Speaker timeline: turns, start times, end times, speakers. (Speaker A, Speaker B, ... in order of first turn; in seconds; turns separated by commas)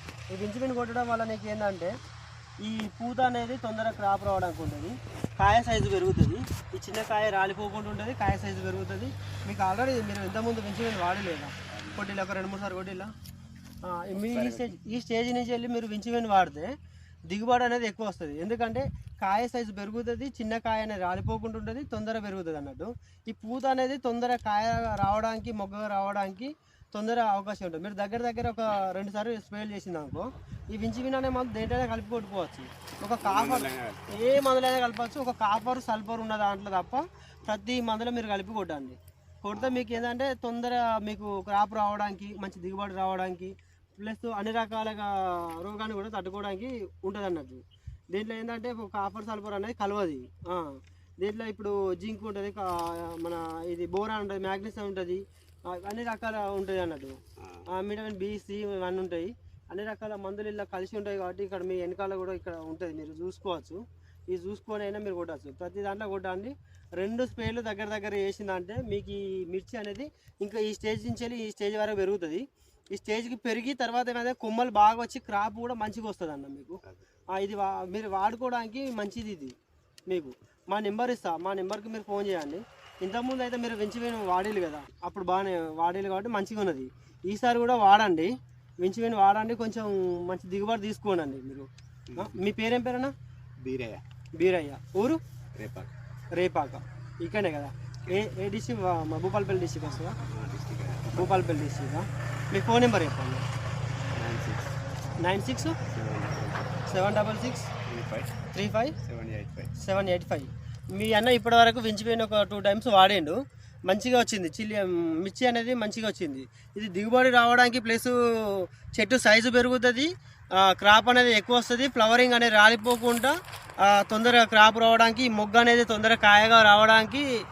Speaker A: 0.3-2.0, Speaker A: 2.6-13.1, Speaker B: 11.7-12.1, Speaker A: 13.8-16.8, Speaker B: 14.2-14.7, Speaker A: 17.3-57.2, Speaker B: 33.2-34.3, Speaker B: 39.5-40.0, Speaker B: 57.4-57.7, Speaker A: 57.7-79.5, Speaker A: 80.1-93.1, Speaker B: 92.1-92.4, Speaker B: 93.6-94.0, Speaker A: 94.4-95.2, Speaker B: 95.5-95.9, Speaker A: 96.3-100.2, Speaker B: 100.3-101.4, Speaker A: 101.1-103.5, Speaker B: 104.2-104.7, Speaker A: 105.2-105.8, Speaker B: 105.9-106.8, Speaker A: 106.9-107.7, Speaker B: 107.9-108.3, Speaker A: 108.5-109.0, Speaker B: 109.0-109.7, Speaker A: 109.8-113.4, Speaker A: 113.9-127.3